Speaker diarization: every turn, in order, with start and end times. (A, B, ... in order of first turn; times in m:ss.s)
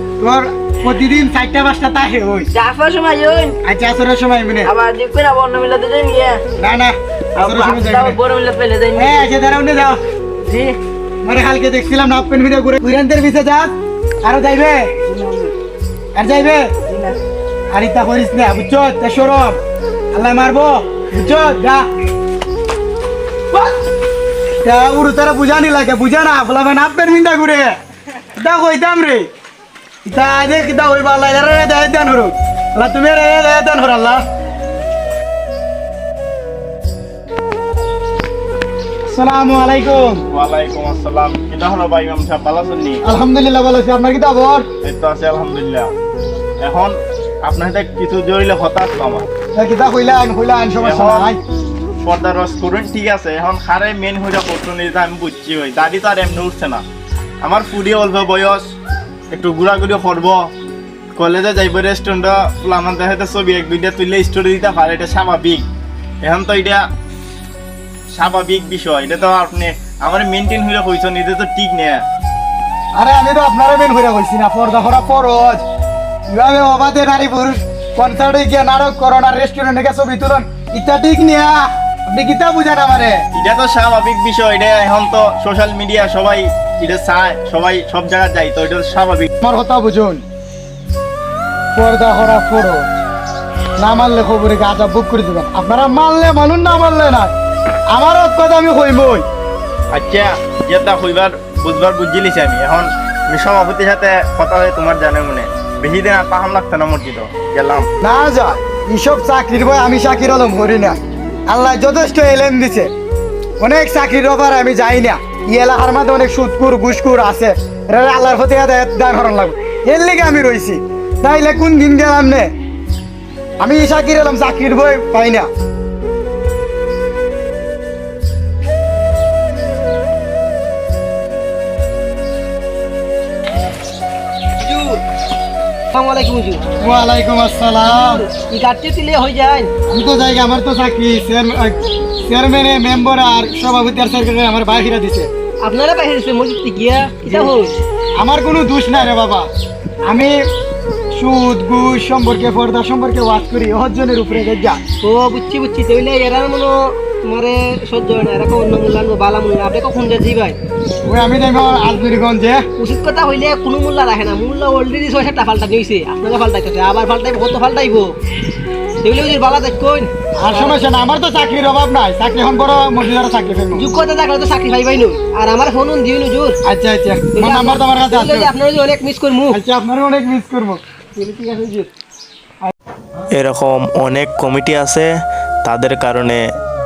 0:00.2-0:02.5 A
0:02.5-0:03.6 B
0:03.6-0:04.7 A
0:04.6-0:06.4 B
0:06.6-0:08.2 A
0:07.4-0:09.2 B
0:09.0-0:10.0 A
0:10.4-0:10.8 B
0:11.2-0:13.7 A
0:14.2-0:14.9 A
0:15.0-0:15.5 B
0:16.1-0:16.7 A
0:16.9-0:17.2 B
0:17.7-0:19.6 A
0:20.1-0:21.8 A
0:24.6-0:27.8 A
0:28.4-0:29.3 A
0:30.0-0:34.2 A
0:39.1-0:40.2 A
0:40.3-0:43.0 C
0:43.0-0:44.6 A
0:44.8-0:45.9 C
0:46.6-0:49.3 C
0:49.5-0:51.4 A
0:50.8-0:51.3 C
0:52.0-0:56.8 C
0:57.4-0:58.6 C
0:59.3-1:00.4 C
1:01.2-1:05.6 C
1:06.2-1:06.8 C
1:08.1-1:12.0 C
1:13.0-1:15.6 A
1:16.3-1:23.2 A
1:23.3-1:29.3 C
1:29.4-1:30.2 A
1:31.7-1:32.8 A
1:33.8-1:37.3 A
1:37.9-1:39.2 A
1:39.9-1:47.8 C
1:48.0-1:52.9 A
1:53.6-2:02.5 A
2:03.6-2:05.5 A
2:14.6-2:14.9 D
2:15.9-2:16.6 D
2:16.8-2:18.2 A
2:17.8-2:19.7 D
2:19.9-2:25.3 A
2:25.6-2:27.8 D
2:27.3-2:27.5 A
2:28.2-2:29.5 A
2:30.0-2:30.4 A
2:31.2-2:34.8 A
2:35.0-2:40.6 D
2:41.0-2:42.6 A
2:42.8-2:48.1 D
2:49.0-2:50.7 D
2:50.4-2:53.9 A
2:53.7-2:56.5 D
2:56.6-2:58.5 A
2:57.3-2:59.6 D
2:59.5-3:00.8 A
3:01.2-3:01.9 D
3:03.3-3:05.1 E
3:05.6-3:06.4 E